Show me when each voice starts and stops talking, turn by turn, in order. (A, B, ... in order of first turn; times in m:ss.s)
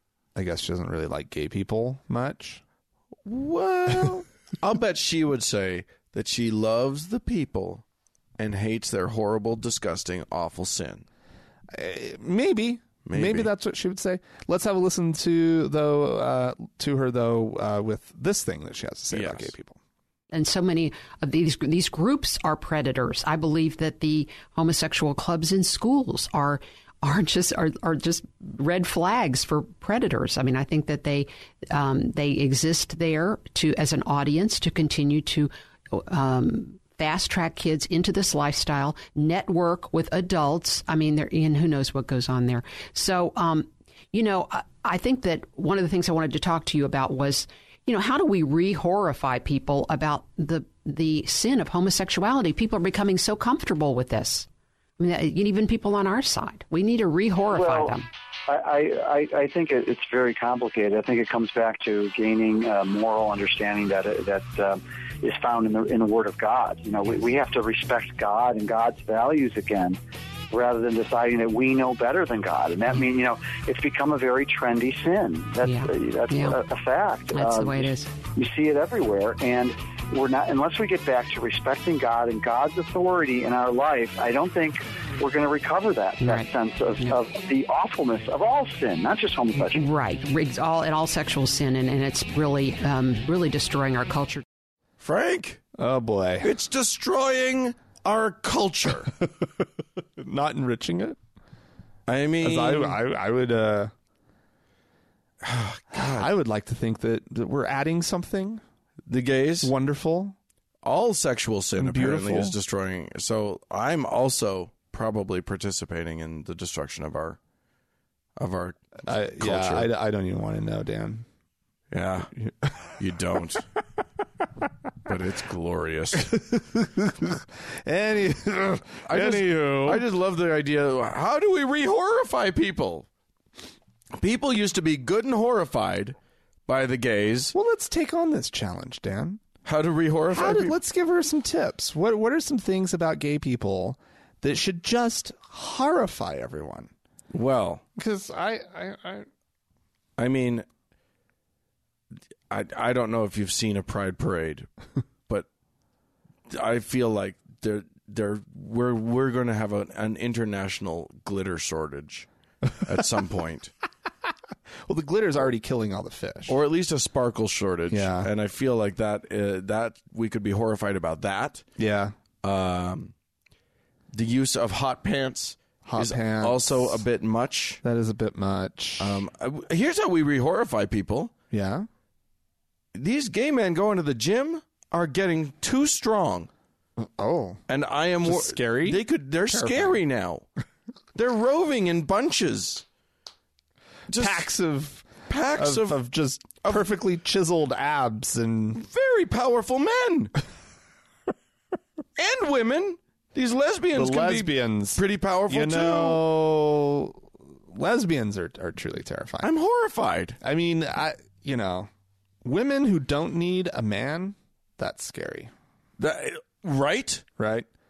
0:00.4-0:02.6 A
0:03.2-0:07.8 B
0:08.4-0:11.1 B
0:11.7-0:19.8 A
0:13.0-0:13.5 B
0:19.1-0:19.5 B
0:20.3-0:54.5 C
0:55.0-0:58.1 C
0:57.5-0:58.0 D
0:58.5-1:10.0 D
1:10.5-1:29.8 D
1:15.6-1:16.6 C
1:17.3-1:18.1 C
1:26.2-1:26.5 C
1:29.6-1:34.4 C
1:35.0-1:35.6 B
1:35.8-1:36.5 A
1:36.4-1:39.1 B
1:40.2-1:41.2 A
1:42.1-1:43.0 B
1:42.4-1:43.9 A
1:45.4-1:46.3 B
1:45.9-1:48.6 A
1:49.1-1:49.7 B
1:49.6-1:50.4 A
1:50.8-1:57.4 B
1:51.8-1:52.6 A
1:58.4-1:59.9 B
1:59.1-2:01.3 A
2:01.9-2:02.3 B
2:02.4-2:03.0 A
2:03.0-2:03.6 B
2:05.0-2:06.3 B
2:06.1-2:10.0 A
2:09.0-2:13.1 B
2:14.2-2:16.2 B
2:16.7-2:17.6 B
2:17.5-2:19.4 A
2:19.6-2:20.8 B
2:20.3-2:26.9 A
2:27.3-2:27.8 B
2:28.0-2:29.3 A
2:30.2-2:30.7 B
2:32.5-2:34.7 B
2:36.5-2:42.3 B
2:42.8-2:43.7 B
2:44.8-2:46.6 A
2:46.5-2:51.6 B
2:47.9-2:48.3 A
2:51.8-2:52.1 A
2:52.4-2:53.1 B
2:54.1-2:57.8 B
2:55.8-2:57.0 A
2:57.8-2:59.2 A
2:59.0-3:01.3 B
3:01.5-3:01.9 A
3:02.9-3:06.5 B
3:07.0-3:07.6 A
3:07.7-3:10.5 B
3:08.2-3:10.0 A
3:11.1-3:12.8 B
3:14.1-3:14.5 B
3:14.2-3:18.8 A
3:15.3-3:16.0 B
3:16.6-3:16.9 B
3:18.7-3:20.3 B
3:22.2-3:26.2 B
3:23.9-3:29.5 A
3:29.4-3:30.4 B
3:30.4-3:31.9 A
3:32.4-3:35.5 A
3:36.0-3:37.2 B
3:37.4-3:37.7 A